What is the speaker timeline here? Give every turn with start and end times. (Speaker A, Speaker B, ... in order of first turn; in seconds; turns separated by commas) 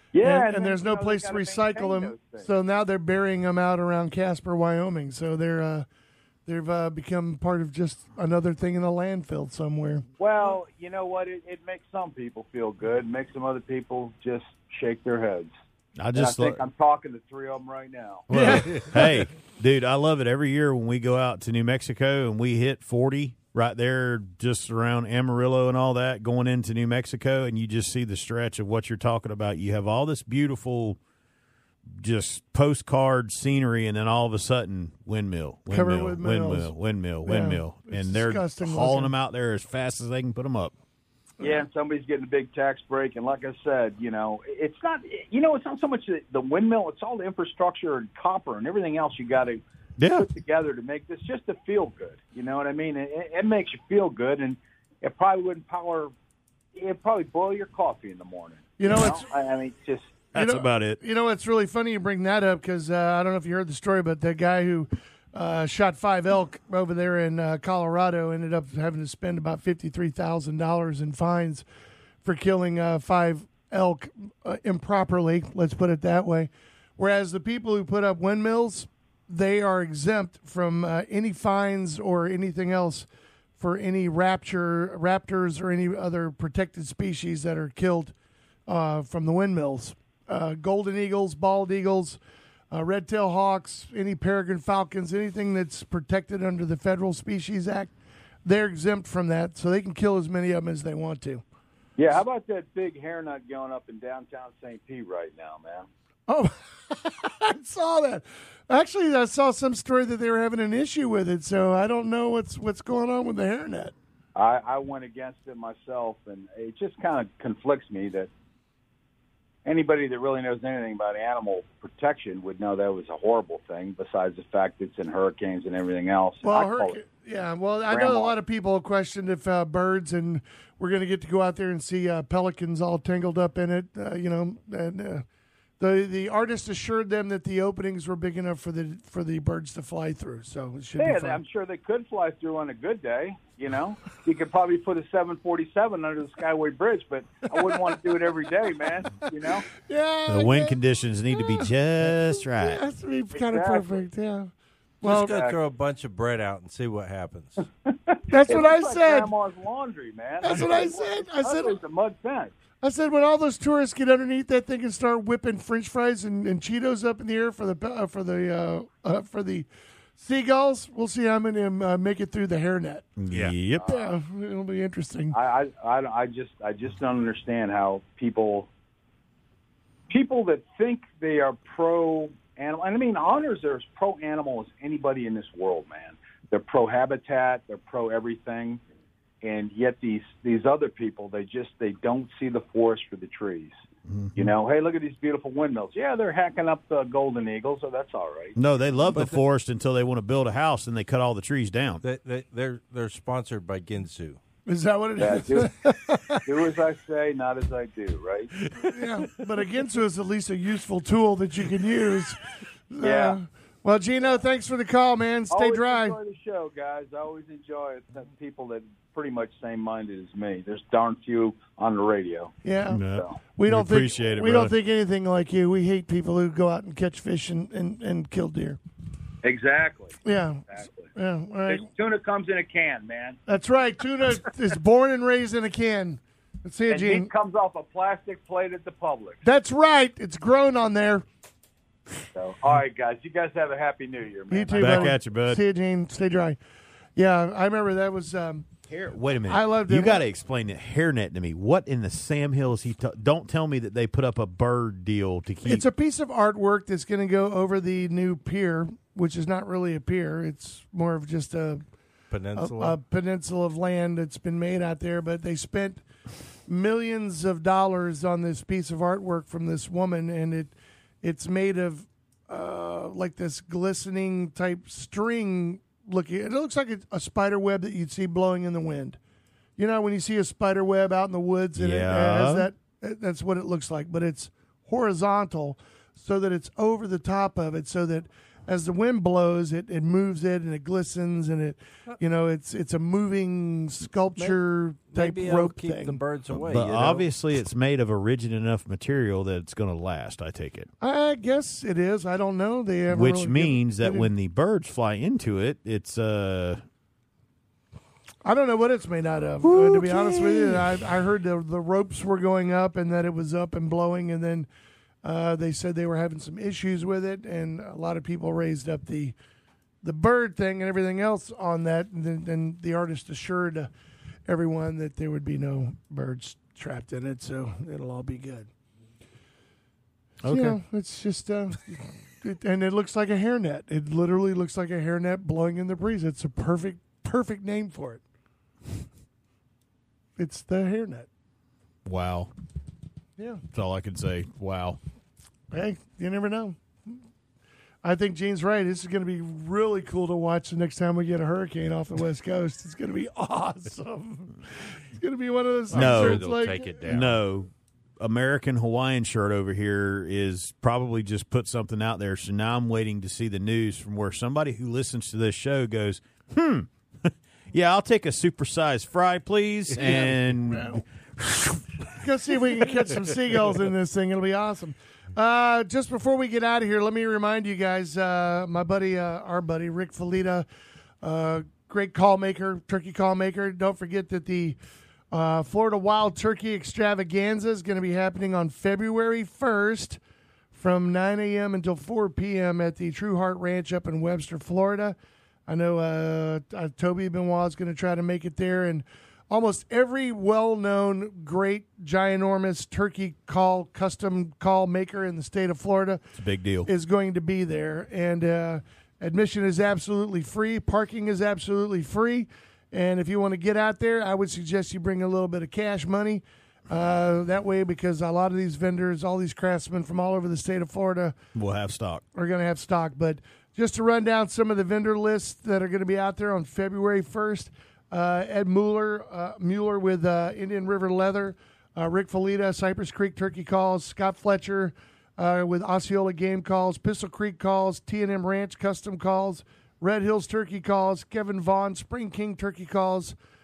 Speaker A: 0.1-2.5, Speaker B: 0.2-5.9, Speaker B: 6.5-10.1, Speaker A: 10.2-15.5, Speaker C: 16.0-16.6, Speaker A: 16.1-18.3, Speaker C: 18.3-31.0, Speaker B: 18.3-18.8, Speaker C: 31.9-40.8, Speaker B: 35.7-36.7, Speaker B: 37.2-39.1, Speaker B: 41.4-41.7, Speaker A: 41.4-56.1, Speaker C: 50.0-50.3, Speaker A: 56.8-60.2, Speaker B: 58.8-59.2, Speaker C: 60.3-61.0, Speaker B: 60.4-71.7, Speaker B: 72.2-83.1, Speaker B: 83.6-88.1, Speaker B: 88.7-92.2, Speaker B: 92.7-97.9, Speaker B: 98.5-101.4, Speaker A: 102.0-105.9, Speaker B: 106.3-113.9, Speaker A: 114.4-118.3, Speaker A: 119.7-127.0, Speaker B: 126.4-135.2, Speaker A: 127.9-128.3, Speaker B: 135.8-141.4, Speaker A: 141.0-149.7, Speaker B: 147.6-148.0, Speaker B: 149.4-150.8, Speaker C: 150.3-152.8, Speaker B: 152.3-155.3, Speaker A: 153.3-154.0, Speaker D: 155.0-157.7, Speaker A: 155.1-155.6, Speaker A: 157.9-162.5, Speaker B: 158.3-159.3, Speaker B: 160.4-161.8, Speaker B: 162.8-173.1, Speaker C: 173.2-173.9, Speaker A: 173.8-174.2, Speaker B: 173.8-175.4, Speaker A: 175.3-178.7, Speaker A: 180.1-188.8, Speaker A: 189.4-193.8, Speaker C: 194.1-194.5, Speaker A: 194.3-198.6, Speaker C: 198.6-202.0, Speaker D: 199.1-199.4, Speaker D: 202.0-204.4, Speaker B: 204.7-206.5, Speaker A: 205.2-205.7, Speaker A: 206.5-208.5, Speaker D: 208.7-209.3, Speaker B: 208.8-216.2, Speaker A: 213.0-213.4, Speaker A: 215.5-222.5, Speaker B: 222.6-223.0, Speaker C: 222.9-224.7, Speaker A: 223.1-223.4, Speaker B: 223.5-228.8, Speaker A: 229.4-230.2, Speaker B: 230.2-231.9, Speaker A: 230.7-231.1, Speaker A: 231.7-233.4, Speaker B: 233.5-237.3, Speaker A: 236.9-239.4, Speaker B: 239.4-241.2, Speaker A: 242.3-245.2, Speaker B: 244.5-246.6, Speaker C: 244.8-245.6, Speaker B: 247.2-248.7, Speaker C: 248.9-255.9, Speaker B: 249.5-250.2, Speaker B: 255.7-261.8, Speaker D: 262.3-263.0, Speaker B: 262.6-266.0, Speaker B: 266.7-279.2, Speaker B: 279.8-296.2, Speaker C: 281.8-282.7, Speaker D: 295.1-297.3, Speaker C: 296.5-300.9, Speaker B: 301.0-304.3, Speaker C: 303.1-306.8, Speaker B: 308.4-314.7, Speaker C: 309.6-311.0, Speaker B: 315.2-319.4, Speaker B: 320.0-323.9, Speaker B: 324.5-328.7, Speaker C: 330.4-330.8, Speaker B: 330.5-338.2, Speaker B: 340.4-341.3, Speaker C: 342.1-342.5, Speaker C: 343.7-345.0, Speaker B: 345.7-346.8, Speaker B: 348.0-357.1, Speaker D: 355.9-357.4, Speaker C: 355.9-356.5, Speaker C: 357.1-372.1, Speaker B: 370.0-371.0, Speaker B: 372.2-380.7, Speaker B: 381.2-384.8, Speaker B: 385.3-390.2, Speaker B: 390.7-395.2, Speaker B: 395.7-406.2, Speaker C: 406.4-406.9, Speaker B: 406.9-421.4, Speaker C: 421.6-422.2, Speaker B: 422.4-443.4